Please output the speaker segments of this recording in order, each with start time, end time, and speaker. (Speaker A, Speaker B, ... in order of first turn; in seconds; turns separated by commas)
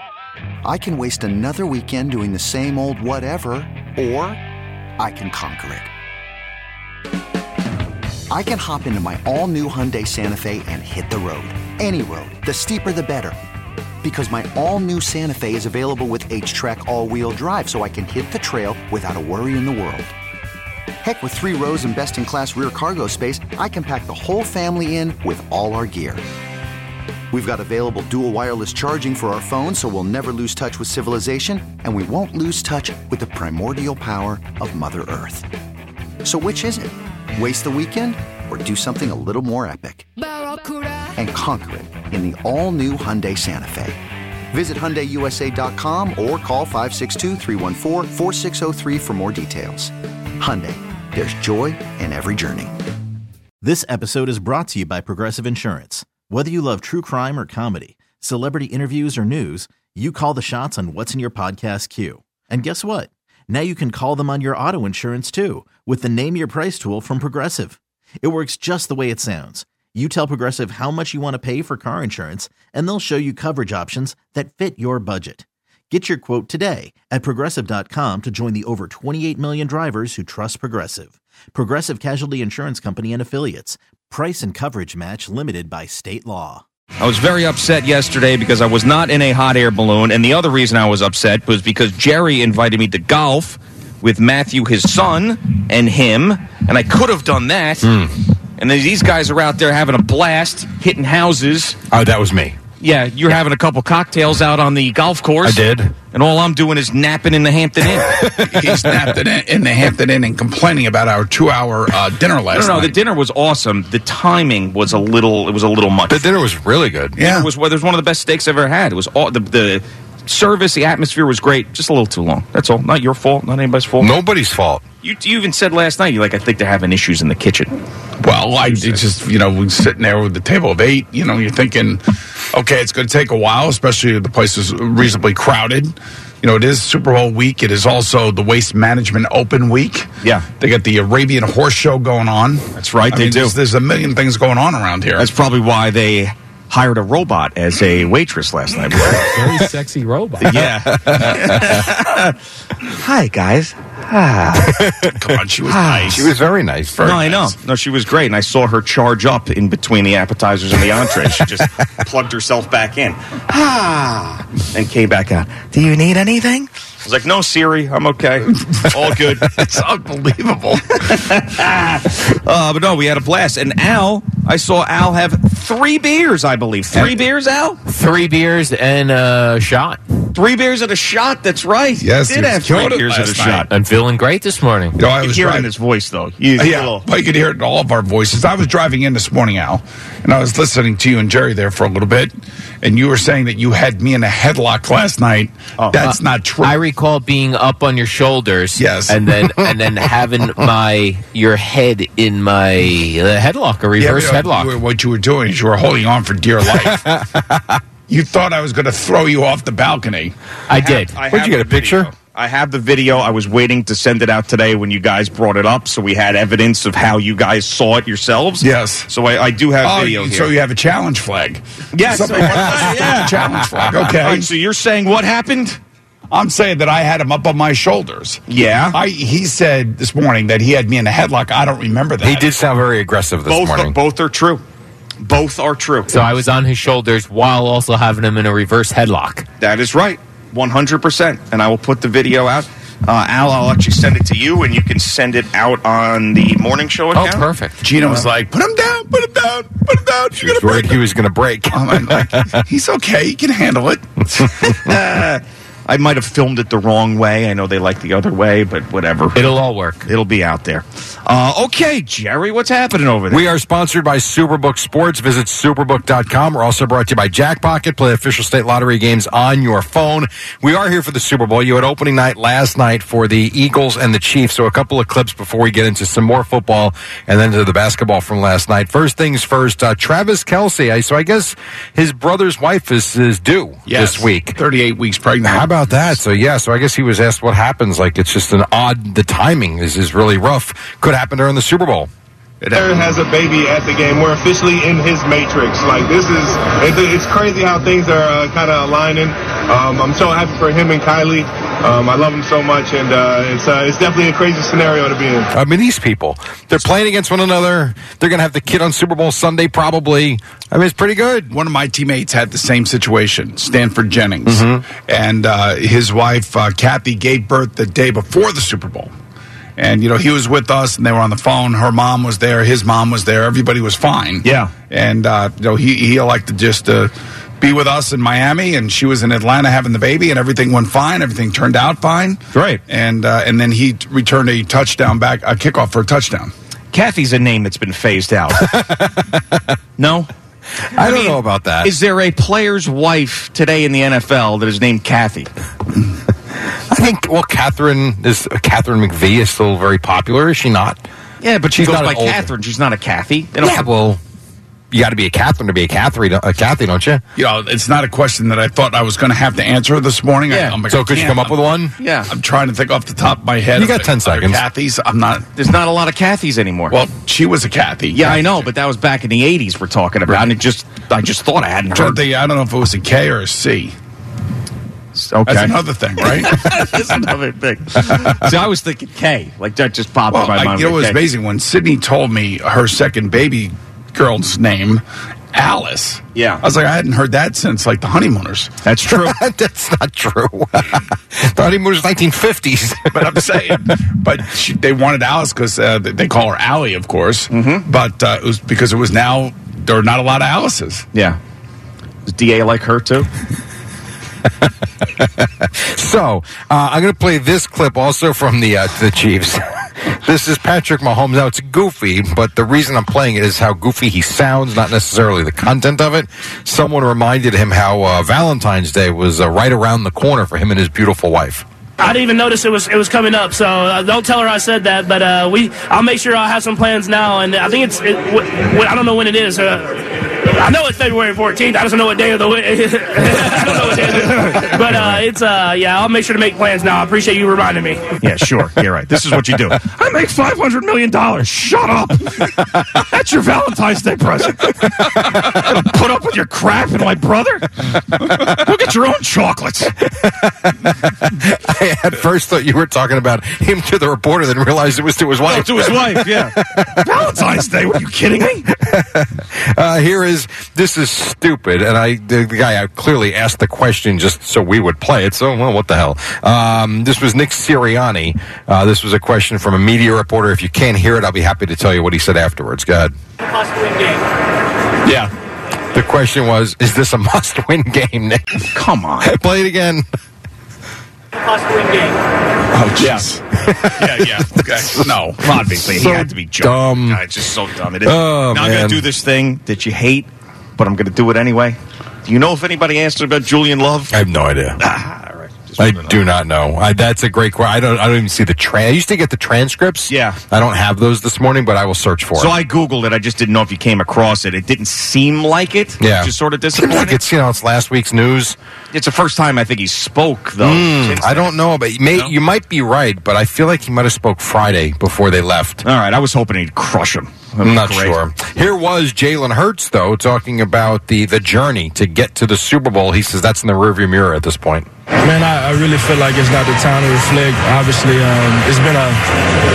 Speaker A: 0.7-4.4, Speaker A: 5.0-5.9, Speaker A: 8.3-13.3, Speaker A: 14.0-20.1, Speaker A: 21.0-26.2, Speaker A: 27.3-35.5, Speaker A: 36.2-40.1, Speaker A: 41.2-44.0, Speaker A: 44.5-52.8, Speaker B: 53.6-86.6, Speaker C: 87.0-98.0, Speaker D: 97.8-98.1, Speaker C: 98.6-101.8, Speaker D: 101.9-102.6, Speaker C: 102.8-108.1, Speaker D: 105.4-106.0, Speaker D: 107.9-109.2, Speaker E: 108.3-113.0, Speaker C: 112.5-116.3, Speaker D: 116.1-117.2, Speaker E: 117.2-117.5, Speaker C: 117.2-124.2, Speaker D: 124.0-124.8, Speaker C: 125.0-127.7, Speaker E: 128.2-132.0, Speaker E: 132.5-140.1, Speaker C: 140.2-140.5, Speaker E: 140.6-145.2, Speaker C: 142.7-143.6, Speaker C: 145.2-149.4, Speaker F: 149.1-150.7, Speaker C: 150.4-154.9, Speaker D: 150.9-151.8, Speaker D: 154.7-155.3, Speaker E: 155.1-156.3, Speaker C: 155.6-156.1, Speaker D: 156.1-157.1, Speaker E: 156.9-157.5, Speaker C: 157.0-169.6, Speaker E: 169.1-170.8, Speaker C: 170.9-177.8, Speaker F: 177.8-180.0, Speaker C: 180.3-183.7, Speaker E: 182.0-183.7, Speaker F: 183.7-185.0, Speaker E: 185.0-185.7, Speaker C: 185.1-187.1, Speaker E: 186.6-196.9, Speaker C: 195.8-196.0, Speaker F: 196.0-204.7, Speaker E: 198.8-199.3, Speaker D: 199.5-199.7, Speaker E: 204.0-207.1, Speaker D: 206.9-207.4, Speaker E: 208.1-210.3, Speaker F: 210.7-211.2, Speaker C: 210.8-220.5, Speaker D: 211.3-212.1, Speaker E: 218.6-219.1, Speaker E: 219.8-224.5, Speaker C: 221.9-225.8, Speaker E: 226.3-228.4, Speaker C: 228.5-229.0, Speaker E: 228.9-232.5, Speaker D: 232.2-234.0, Speaker C: 233.5-234.6, Speaker C: 235.2-236.1, Speaker F: 236.1-239.5, Speaker C: 239.6-247.5, Speaker F: 247.1-247.8, Speaker E: 247.8-251.0, Speaker D: 250.4-252.6, Speaker E: 251.7-254.7, Speaker C: 254.7-259.5, Speaker F: 259.4-260.1, Speaker C: 260.1-263.4, Speaker D: 263.3-284.6, Speaker E: 283.9-286.2, Speaker D: 285.4-292.1, Speaker E: 292.6-293.0, Speaker G: 292.7-305.5, Speaker D: 305.5-311.5, Speaker E: 311.5-319.1, Speaker D: 314.5-314.8, Speaker E: 319.8-336.5, Speaker C: 324.4-324.7, Speaker C: 332.5-332.8, Speaker C: 336.9-338.7, Speaker D: 338.5-339.7, Speaker C: 340.0-340.3, Speaker D: 340.9-341.9, Speaker C: 341.0-345.5, Speaker D: 346.9-351.0, Speaker C: 351.4-353.8, Speaker D: 351.7-352.5, Speaker D: 353.6-354.2, Speaker D: 354.9-357.2, Speaker E: 357.4-361.6, Speaker C: 360.5-360.8, Speaker D: 360.9-361.9, Speaker C: 362.0-362.3, Speaker E: 362.3-365.4, Speaker D: 363.8-364.6, Speaker C: 365.6-367.0, Speaker E: 366.9-368.5, Speaker C: 368.1-372.2, Speaker E: 371.9-373.9, Speaker C: 375.1-381.2, Speaker E: 375.5-376.6, Speaker E: 380.3-385.0, Speaker E: 385.5-388.7, Speaker C: 386.4-386.6, Speaker C: 388.8-389.4, Speaker D: 389.1-393.6, Speaker E: 393.1-401.1, Speaker C: 397.5-397.9, Speaker C: 401.1-401.4, Speaker C: 402.3-403.3, Speaker D: 405.2-421.6, Speaker H: 422.0-438.0, Speaker C: 433.9-435.3, Speaker C: 438.2-450.0, Speaker D: 450.3-457.1, Speaker C: 455.4-458.7, Speaker D: 458.9-473.1, Speaker D: 475.9-478.7, Speaker C: 478.7-479.3, Speaker D: 479.2-480.0, Speaker E: 482.7-483.4, Speaker D: 483.7-485.0, Speaker C: 484.0-484.5, Speaker E: 484.5-485.4, Speaker C: 485.4-494.2, Speaker D: 485.8-487.2, Speaker D: 488.0-489.1, Speaker D: 494.1-494.8, Speaker C: 494.8-496.2, Speaker D: 495.8-502.6, Speaker C: 500.1-500.4, Speaker C: 502.4-507.2, Speaker D: 506.0-508.6, Speaker C: 508.9-512.4, Speaker D: 510.6-515.9, Speaker C: 515.8-518.2, Speaker D: 517.6-524.9, Speaker I: 525.2-529.2